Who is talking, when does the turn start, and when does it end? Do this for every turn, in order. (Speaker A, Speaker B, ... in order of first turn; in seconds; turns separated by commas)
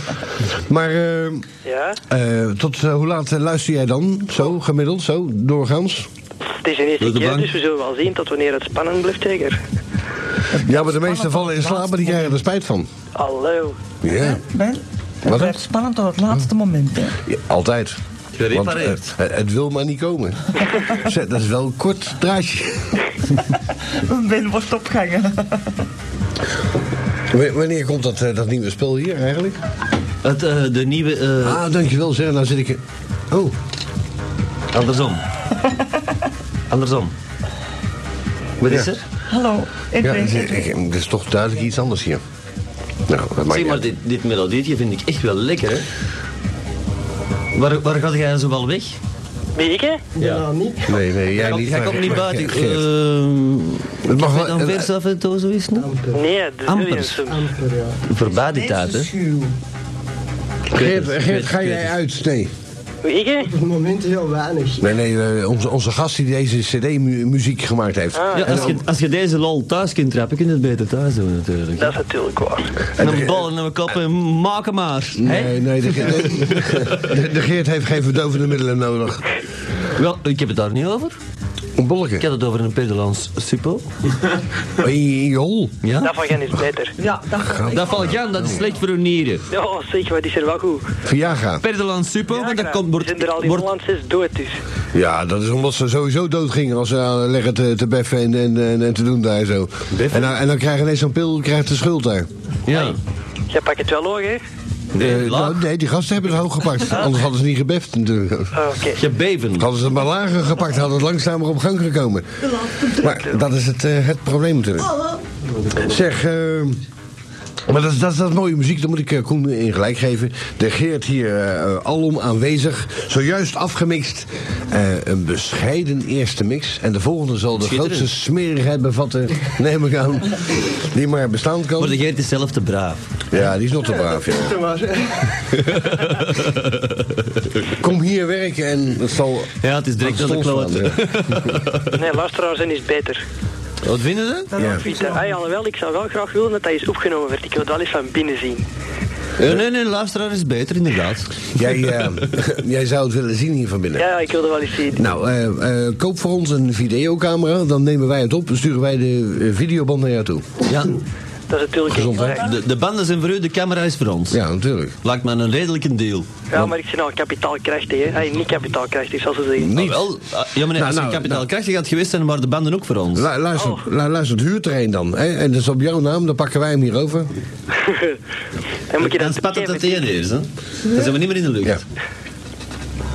Speaker A: 0.5-1.4, Speaker B: 1.6-2.0, Speaker A: 2.1-6.1, Speaker B: 6.6-9.6, Speaker C: 7.0-7.5, Speaker D: 10.5-12.3, Speaker A: 10.6-12.9, Speaker B: 13.1-13.8, Speaker A: 14.0-14.4, Speaker D: 14.1-17.1, Speaker A: 15.2-15.6, Speaker A: 17.2-18.0, Speaker C: 18.3-19.1, Speaker A: 18.5-23.0, Speaker D: 23.9-25.7, Speaker A: 27.3-29.6, Speaker C: 30.2-31.6, Speaker A: 31.4-33.5, Speaker C: 34.7-35.2, Speaker C: 36.7-37.1, Speaker C: 38.6-39.0, Speaker D: 39.3-40.6, Speaker A: 40.0-42.2, Speaker A: 43.1-43.9, Speaker C: 43.5-45.9, Speaker C: 47.5-49.0, Speaker B: 49.5-50.0, Speaker E: 50.1-51.0, Speaker C: 50.2-50.4, Speaker A: 50.9-52.9, Speaker C: 51.3-55.9, Speaker A: 54.0-54.9, Speaker E: 55.7-56.2, Speaker B: 56.1-57.4, Speaker C: 56.7-57.2, Speaker E: 57.3-58.0, Speaker C: 58.0-59.1, Speaker D: 58.3-59.5, Speaker A: 60.7-62.5, Speaker C: 60.7-61.9, Speaker B: 63.0-63.5, Speaker E: 63.5-64.9, Speaker A: 64.8-68.8, Speaker B: 68.1-68.7, Speaker C: 68.3-71.9, Speaker B: 71.8-72.7, Speaker A: 73.0-73.5, Speaker C: 73.0-77.0, Speaker A: 75.2-79.3, Speaker C: 79.9-81.2, Speaker A: 81.8-82.2, Speaker C: 82.2-83.8, Speaker A: 84.8-85.8, Speaker C: 85.8-86.1, Speaker B: 86.0-86.9, Speaker D: 87.0-88.1, Speaker A: 87.4-88.6, Speaker C: 87.7-89.4, Speaker B: 89.5-90.8, Speaker A: 91.0-91.6, Speaker C: 91.6-93.7, Speaker B: 92.3-94.6, Speaker A: 94.9-102.3, Speaker C: 99.9-100.3, Speaker C: 102.7-103.0, Speaker B: 103.5-104.4, Speaker C: 104.9-105.6, Speaker A: 105.0-108.5, Speaker B: 108.5-109.0, Speaker C: 108.9-109.7, Speaker A: 109.6-114.9, Speaker D: 112.4-113.2, Speaker D: 114.8-115.2, Speaker A: 115.8-116.8, Speaker A: 117.7-132.0, Speaker C: 127.6-128.1, Speaker C: 131.8-133.1, Speaker A: 133.3-134.6, Speaker E: 133.9-135.3, Speaker C: 135.5-137.6, Speaker A: 137.7-141.4, Speaker C: 139.6-141.9, Speaker B: 141.9-143.2, Speaker C: 143.8-144.5, Speaker D: 144.5-145.4, Speaker A: 144.6-144.8, Speaker B: 144.8-148.7, Speaker C: 149.4-151.5, Speaker A: 151.5-154.1, Speaker B: 154.0-155.1, Speaker A: 154.9-160.5, Speaker C: 160.7-161.0, Speaker B: 161.5-162.5, Speaker A: 161.9-162.4, Speaker C: 162.2-164.4, Speaker A: 164.3-164.9, Speaker C: 165.0-166.4, Speaker B: 166.5-169.7, Speaker A: 169.6-170.1, Speaker C: 169.7-173.3, Speaker A: 170.7-171.4, Speaker A: 173.1-177.3, Speaker B: 173.6-173.8, Speaker B: 177.8-178.2, Speaker B: 178.9-180.0, Speaker C: 179.0-181.8